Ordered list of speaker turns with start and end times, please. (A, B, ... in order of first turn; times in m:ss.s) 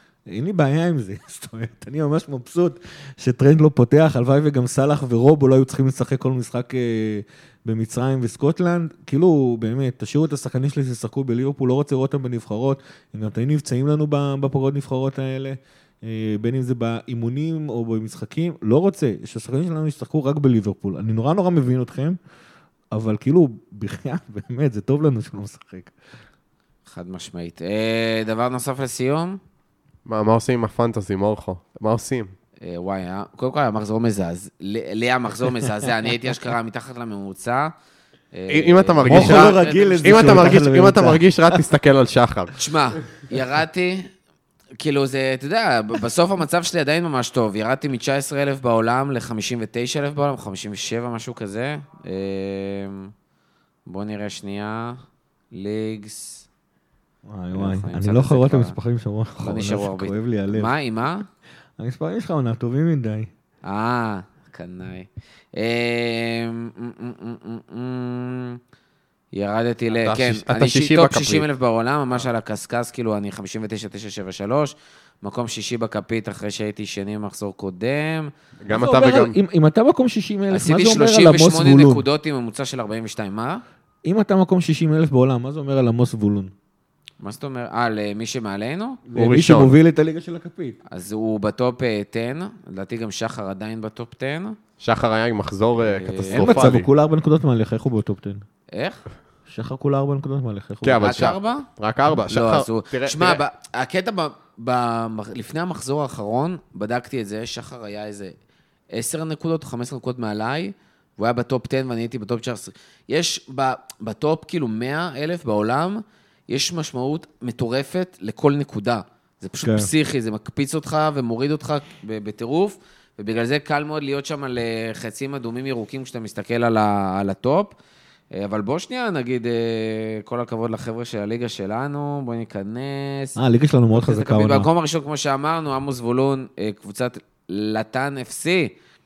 0:00.3-0:22.2 A
0:22.9-0:26.0 A
0:26.9-0:29.4 B
0:30.1-0:32.3 C
0:32.6-0:37.7 B
0:38.3-0:40.6 B
0:38.5-0:42.6 C
0:39.1-0:41.6 A
0:42.6-0:44.1 B
0:44.8-0:53.1 B
0:53.9-0:55.0 B
0:55.5-0:56.5 B
0:57.2-1:00.7 A
0:57.5-0:58.8 B
0:59.4-1:01.3 B
1:01.8-1:03.3 A
1:03.6-1:08.6 B
1:09.3-1:18.3 B
1:10.0-1:11.5 C
1:18.6-1:19.4 C
1:18.7-1:22.0 A
1:20.5-1:23.6 B
1:24.0-1:26.5 A
1:27.2-1:29.0 B
1:29.1-1:30.8 A
1:29.2-1:29.8 C
1:30.9-1:34.6 B
1:34.8-1:36.9 C
1:35.8-1:36.7 B
1:36.3-1:38.4 A
1:38.7-1:39.0 B
1:39.5-1:41.3 A
1:40.8-1:43.4 C
1:41.0-1:41.7 B
1:42.2-1:48.3 B
1:48.9-2:07.7 B
1:59.6-1:59.9 A
2:08.3-2:13.4 B
2:13.4-2:14.7 A
2:14.0-2:18.8 B